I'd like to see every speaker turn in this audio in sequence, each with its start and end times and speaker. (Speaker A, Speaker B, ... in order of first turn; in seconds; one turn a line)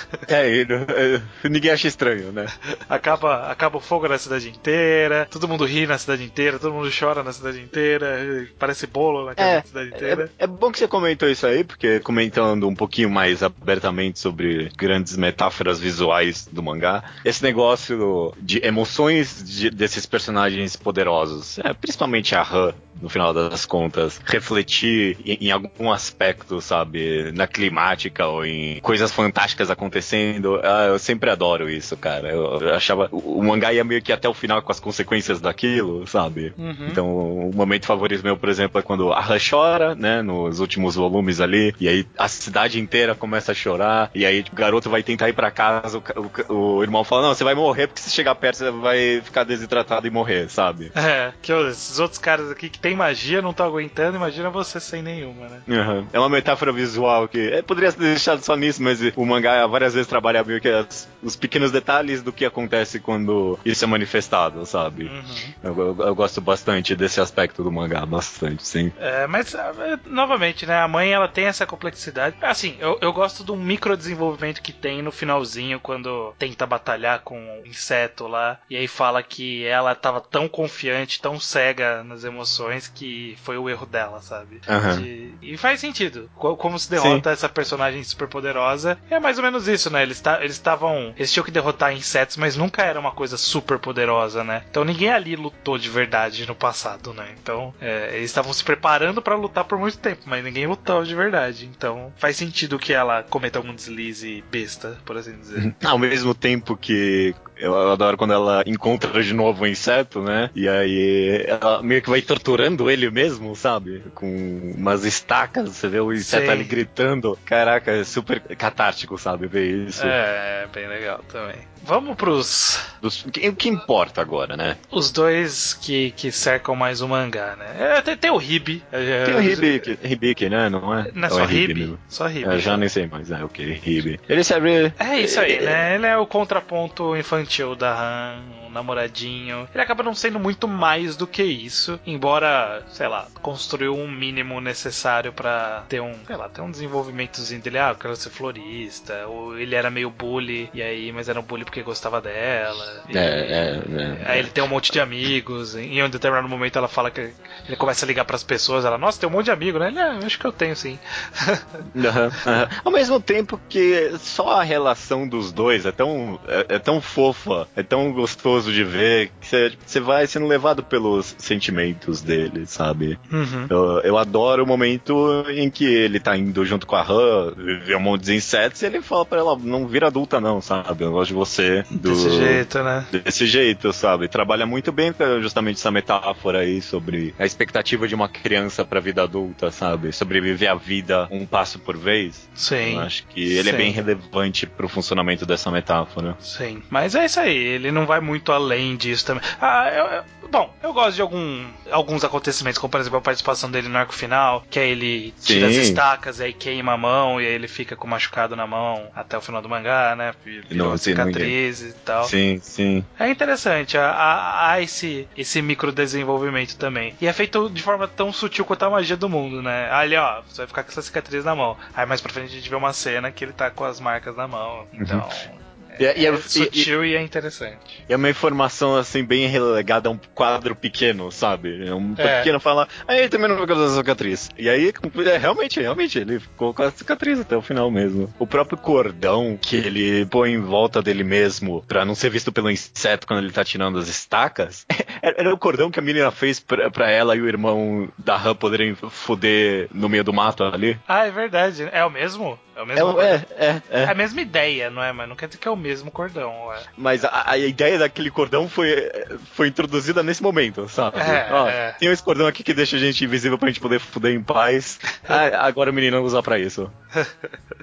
Speaker A: 0.3-2.5
Speaker B: 2.9-10.3
Speaker A: 9.4-50.9
Speaker B: 36.6-37.0
Speaker B: 50.9-55.6
Speaker A: 55.7-65.1
Speaker B: 65.0-65.5
Speaker A: 65.6-68.9
Speaker B: 69.0-105.7
Speaker A: 84.7-85.1
Speaker A: 87.0-87.2
Speaker A: 105.6-120.2
Speaker B: 116.2-116.7
Speaker B: 120.0-122.9
Speaker A: 123.0-124.8
Speaker B: 124.9-129.9
Speaker A: 129.2-135.8
Speaker B: 131.1-132.8
Speaker B: 135.0-161.8
Speaker A: 153.1-154.5
Speaker A: 161.9-196.4
Speaker B: 173.3-173.7
Speaker B: 181.9-183.1
Speaker B: 192.6-193.9
Speaker B: 196.4-212.3
Speaker A: 205.4-206.0
Speaker A: 210.7-211.6
Speaker A: 212.2-213.1
Speaker B: 213.2-228.0
Speaker A: 225.0-225.2
Speaker A: 226.0-226.9
Speaker A: 228.1-251.0
Speaker B: 232.2-232.5
Speaker B: 251.1-253.4
Speaker A: 252.9-254.1
Speaker B: 254.0-256.9
Speaker A: 257.0-266.9
Speaker B: 261.1-262.0
Speaker B: 265.1-265.4